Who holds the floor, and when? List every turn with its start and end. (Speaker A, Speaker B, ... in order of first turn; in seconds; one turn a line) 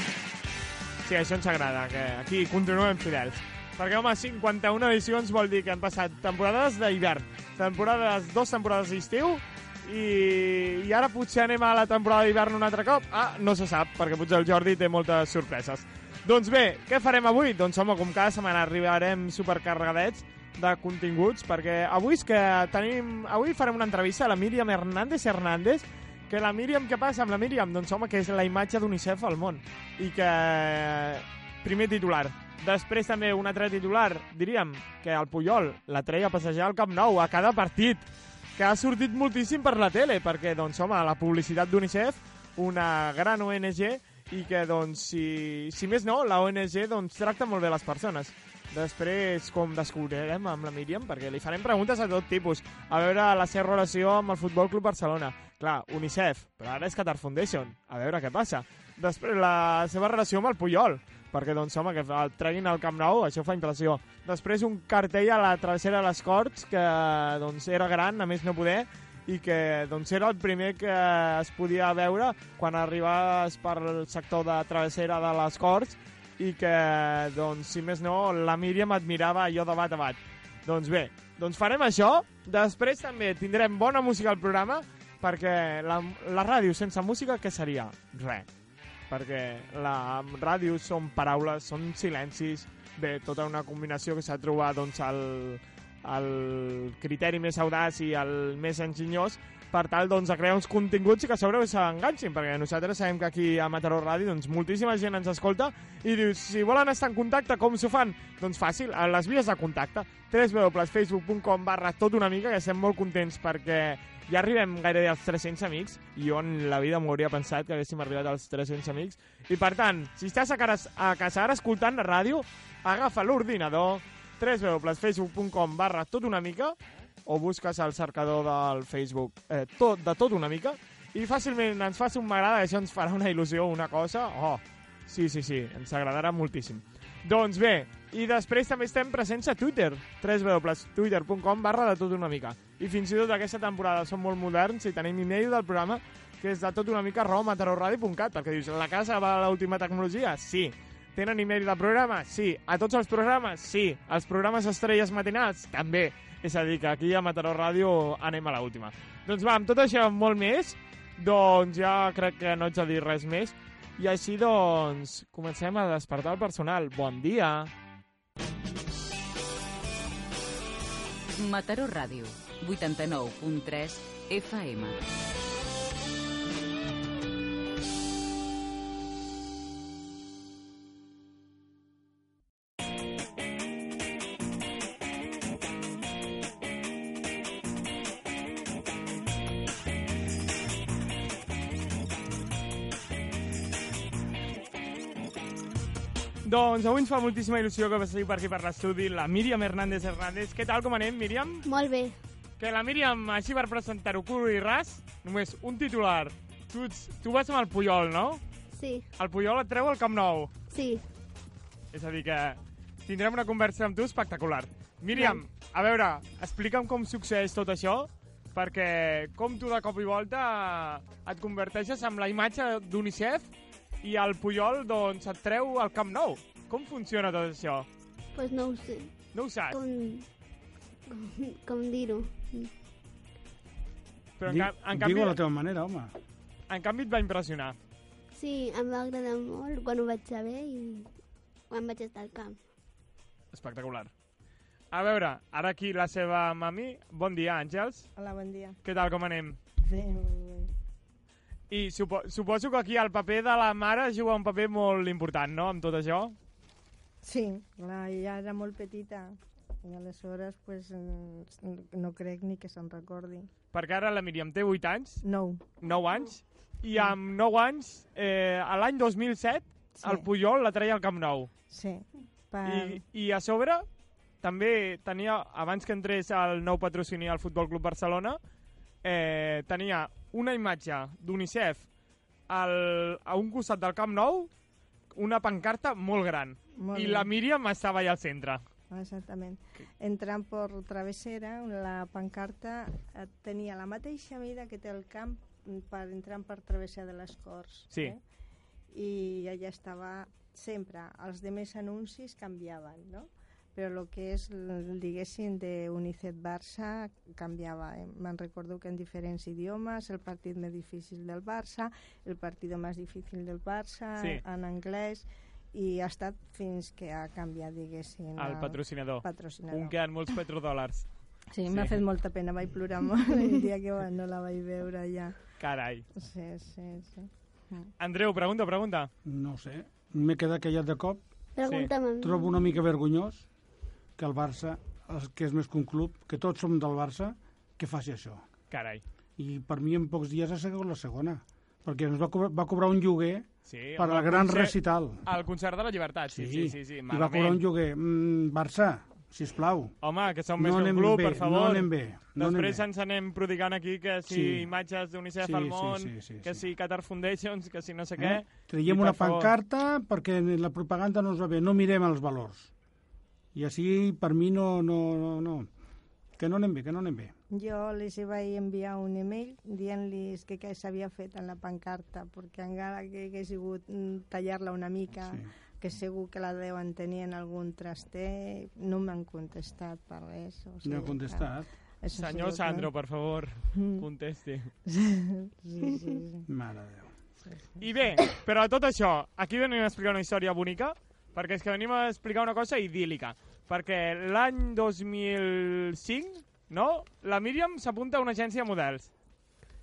Speaker A: 1.0-88.5
Speaker A: 89.1-167.7
Speaker B: 171.3-175.0
Speaker A: 196.4-201.7
Speaker C: 201.7-202.2
Speaker A: 202.6-208.4
Speaker C: 208.7-209.1
Speaker A: 209.2-210.5
Speaker C: 210.7-211.0
Speaker A: 211.9-223.5
Speaker C: 215.1-215.4
Speaker A: 224.0-227.9
Speaker C: 228.3-229.1
Speaker A: 229.3-229.8
Speaker C: 229.7-230.2
Speaker C: 231.1-232.7
Speaker A: 234.4-235.4
Speaker D: 234.4-236.1
Speaker A: 236.7-237.8
Speaker C: 238.3-241.1
Speaker C: 241.7-242.6
Speaker A: 243.5-244.1
Speaker A: 244.9-248.1
Speaker E: 248.2-248.8
Speaker A: 248.8-249.6
Speaker E: 249.8-250.7
Speaker A: 251.7-256.4
Speaker E: 257.2-263.5
Speaker A: 263.7-265.2
Speaker E: 265.2-265.6
Speaker A: 265.8-271.5
Speaker E: 270.0-270.3
Speaker E: 271.7-273.0
Speaker A: 272.6-273.8
Speaker A: 274.4-278.4
Speaker A: 279.0-281.9
Speaker A: 282.5-284.5
Speaker A: 285.1-288.6
Speaker E: 286.8-287.3
Speaker E: 288.9-298.2
Speaker E: 298.9-319.9
Speaker A: 318.4-321.1
Speaker E: 321.5-325.4
Speaker A: 321.7-321.9
Speaker A: 325.6-326.1
Speaker E: 326.1-327.9
Speaker A: 328.0-329.1
Speaker D: 329.2-331.2
Speaker C: 331.6-332.6
Speaker D: 332.2-333.5
Speaker D: 334.2-338.4
Speaker A: 338.7-339.0
Speaker D: 339.4-345.2
Speaker A: 343.6-347.6
Speaker D: 346.3-349.9
Speaker A: 350.0-359.5
Speaker D: 350.6-352.8
Speaker D: 354.3-354.7
Speaker D: 355.4-356.6
Speaker D: 358.2-362.7
Speaker D: 363.5-365.7
Speaker D: 366.4-367.3
Speaker E: 367.5-381.5
Speaker D: 380.8-381.7
Speaker E: 382.0-382.9
Speaker A: 382.1-384.7
Speaker E: 383.7-384.0
Speaker E: 384.8-386.5
Speaker D: 386.5-387.1
Speaker E: 387.4-388.2
Speaker A: 387.8-399.1